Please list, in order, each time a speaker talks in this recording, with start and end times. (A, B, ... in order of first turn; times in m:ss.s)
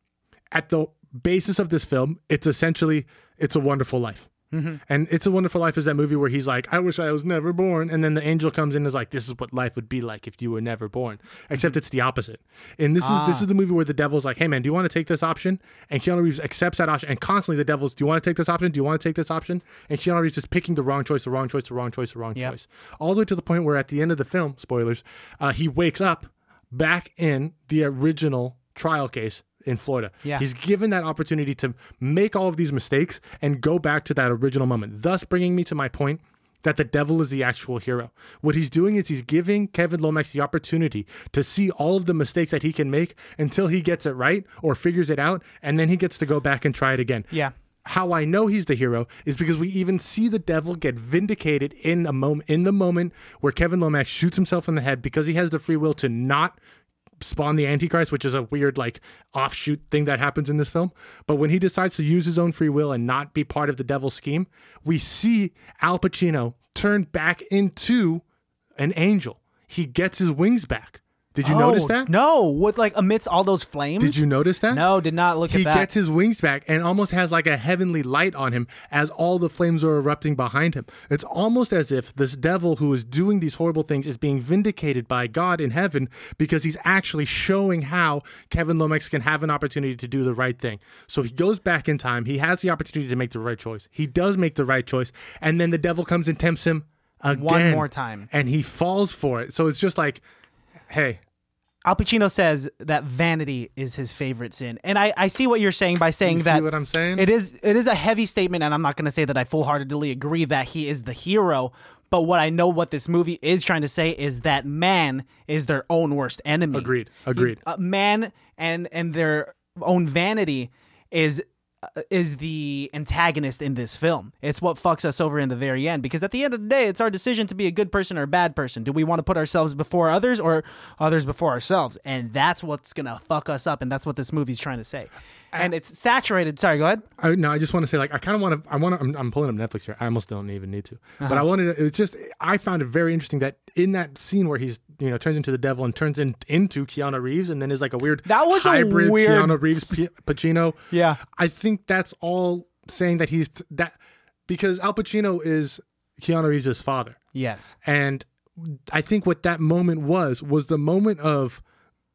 0:00.5-0:04.3 A
0:04.5-0:04.8 B
0:04.8-0:47.3 A
0:13.0-0:13.4 B
0:47.8-0:56.6 A
0:57.2-1:08.2 A
1:08.8-1:12.1 A
1:11.4-1:15.9 B
1:14.0-1:14.8 A
1:15.5-1:40.2 A
1:37.3-1:38.3 B
1:40.9-1:41.2 A
1:41.8-2:17.0 B
1:46.2-1:47.2 A
1:56.7-1:57.6 A
2:17.2-2:34.0 A
2:21.2-2:21.4 B
2:28.2-2:30.0 B
2:30.9-2:31.2 B
2:34.5-2:37.2 A
2:37.3-2:37.8 B
2:37.8-2:41.6 A